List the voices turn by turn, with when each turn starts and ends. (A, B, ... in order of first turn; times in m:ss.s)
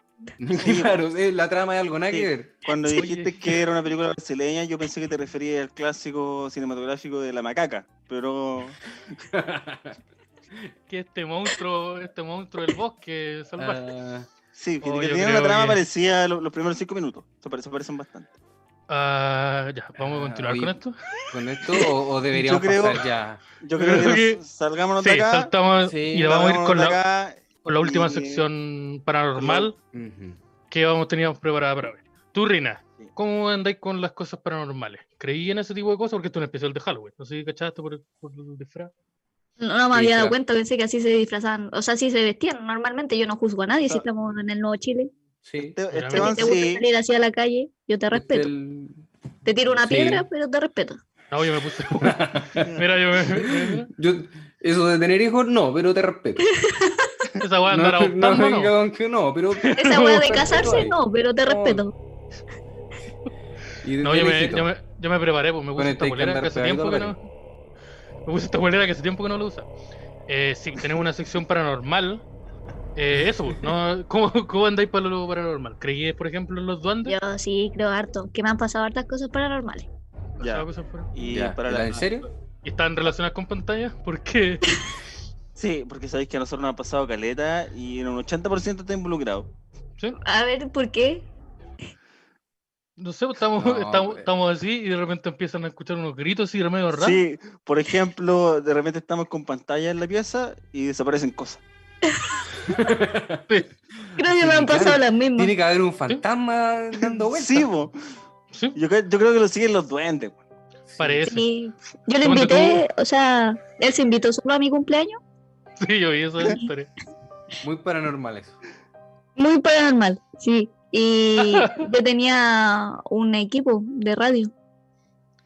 0:00.4-0:02.5 A
0:00.6-0:01.0 B
0:02.1-0:08.8 B
0:02.8-0:03.6 C
0:09.3-0:10.0 A
0:10.9-0:13.8 C
0:13.6-0:14.3 A
0:14.5-0:18.3 B
0:14.8-0:15.8 C
0:18.9-0:21.0 C
0:20.0-0:20.8 A
0:21.3-0:23.4 A
0:22.3-0:23.1 B
0:23.6-0:25.5 B
0:23.8-0:24.4 C
0:25.0-0:27.0 C
0:25.8-0:26.3 A
0:26.2-0:28.4 B
0:27.6-0:29.7 C
0:29.4-0:29.7 B
0:29.9-0:30.4 A
0:30.7-0:38.9 C
0:39.6-0:45.1 D
0:39.9-0:40.4 A
0:45.4-0:45.8 A
0:45.6-0:46.8 B
0:45.9-0:46.6 C
0:46.1-0:48.5 D
0:48.1-0:49.1 A
0:49.4-0:51.0 D
0:49.7-0:50.3 A
0:51.3-0:53.9 C
0:52.0-0:52.8 A
0:53.3-0:56.5 A
0:56.4-0:57.3 D
0:57.4-0:58.7 C
0:57.7-1:01.8 A
0:59.6-1:00.5 C
0:59.7-1:01.9 D
1:03.8-1:04.7 A
1:04.0-1:07.2 C
1:05.8-1:07.2 A
1:08.3-1:09.7 C
1:10.3-1:12.2 C
1:13.0-1:17.2 C
1:17.0-1:19.9 D
1:20.4-1:21.1 C
1:20.4-1:22.1 B
1:21.2-1:22.3 A
1:22.6-1:24.6 C
1:25.6-1:29.5 B
1:30.2-1:31.3 D
1:33.0-1:37.2 C
1:33.6-1:34.3 A
1:36.9-1:41.6 B
1:42.7-1:43.4 A
1:44.0-1:47.7 A
1:44.2-1:45.5 D
1:47.2-1:47.9 B
1:48.7-1:50.4 B
1:50.9-1:51.2 A
1:51.0-1:51.4 C
1:51.2-1:55.2 D
1:52.2-1:52.8 C
1:55.8-1:56.9 C
1:57.6-1:58.6 A
1:59.4-2:04.5 D
2:01.4-2:01.9 C